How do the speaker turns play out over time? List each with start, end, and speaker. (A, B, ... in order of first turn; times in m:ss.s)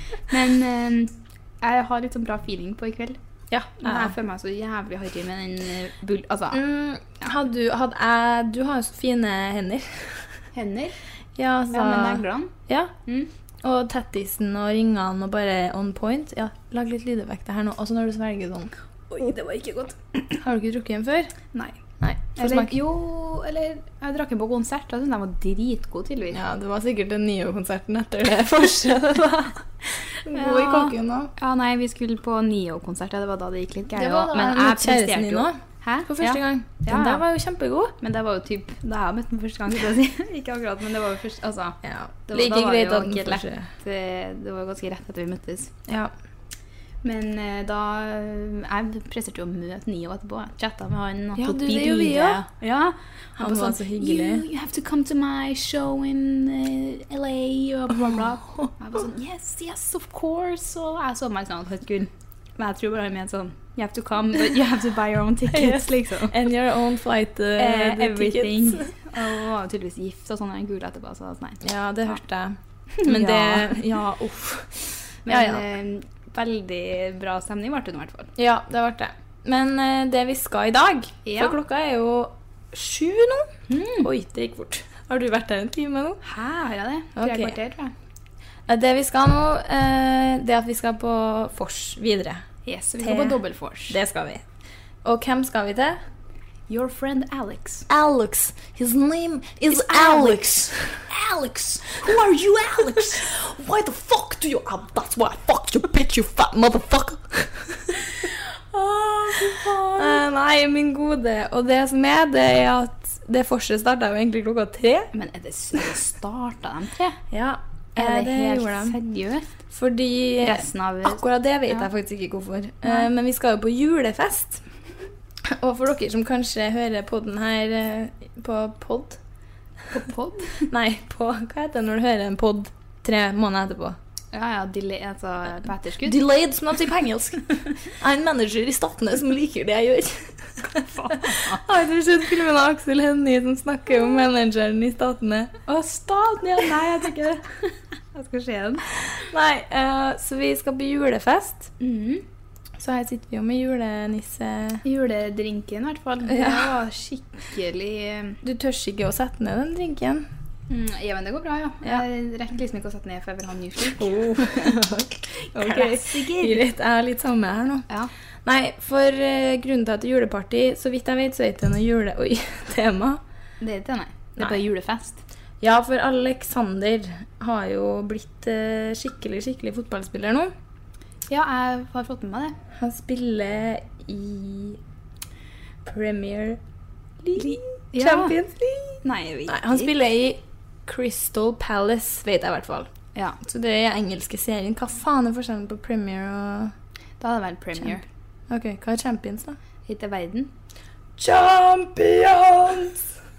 0:00.3-0:03.2 A
0:03.5-0:04.1 B
0:03.8-0:06.6 A
0:06.5-0:10.3 B
0:10.5-0:11.0 A
0:11.4-0:12.9 B
0:11.7-0:12.5 A
0:13.6-0:18.7 B
0:19.1-0:20.0 A
0:20.3-0:21.3 B
0:22.0-0:22.8 B
0:22.4-0:26.4 A
0:26.3-0:31.3 B
0:30.3-0:37.2 A
0:33.9-0:37.9 B
0:38.0-0:45.7 A
0:41.8-0:43.7 B
0:45.9-0:46.1 B
0:47.0-1:06.4 A
0:51.4-0:52.4 B
0:53.4-0:54.4 B
0:58.0-0:58.7 B
1:05.5-1:09.0 B
1:07.6-1:12.2 A
1:11.6-1:15.6 B
1:13.0-1:13.8 A
1:15.3-1:18.3 A
1:18.4-1:26.2 B
1:21.2-1:21.6 A
1:23.7-1:24.1 A
1:26.2-1:27.9 A
1:27.2-1:27.6 B
1:28.7-1:32.5 B
1:32.7-1:34.0 A
1:33.0-1:34.4 B
1:35.0-1:36.0 B
1:36.7-1:37.9 A
1:37.9-1:55.1 B
1:39.7-1:40.6 A
1:41.3-1:43.2 A
1:49.5-1:50.0 A
1:55.1-1:57.2 A
1:57.3-1:59.0 B
1:58.0-1:59.5 A
1:59.7-2:04.6 B
2:00.4-2:01.8 A
2:05.4-2:09.2 B
2:09.9-2:10.7 A
2:10.7-2:14.0 B
2:14.3-2:16.2 A
2:16.0-2:25.6 B
2:20.9-2:21.6 A
2:25.7-2:28.9 A
2:29.0-2:31.7 B
2:31.8-2:32.2 A
2:32.8-2:34.8 B
2:34.8-2:38.4 A
2:36.3-2:36.8 B
2:38.4-2:40.3 B
2:40.7-2:44.8 A
2:43.9-2:47.9 B
2:45.5-2:46.6 A
2:48.4-2:53.2 B
2:53.6-2:55.2 A
2:55.6-3:00.5 B
3:01.3-3:02.6 A
3:02.7-3:04.8 B
3:05.8-3:06.6 B
3:07.2-3:16.7 B
3:07.4-3:08.4 A
3:09.0-3:09.9 A
3:17.2-3:18.0 A
3:18.5-3:19.6 B
3:19.9-3:20.5 A
3:21.2-3:23.1 B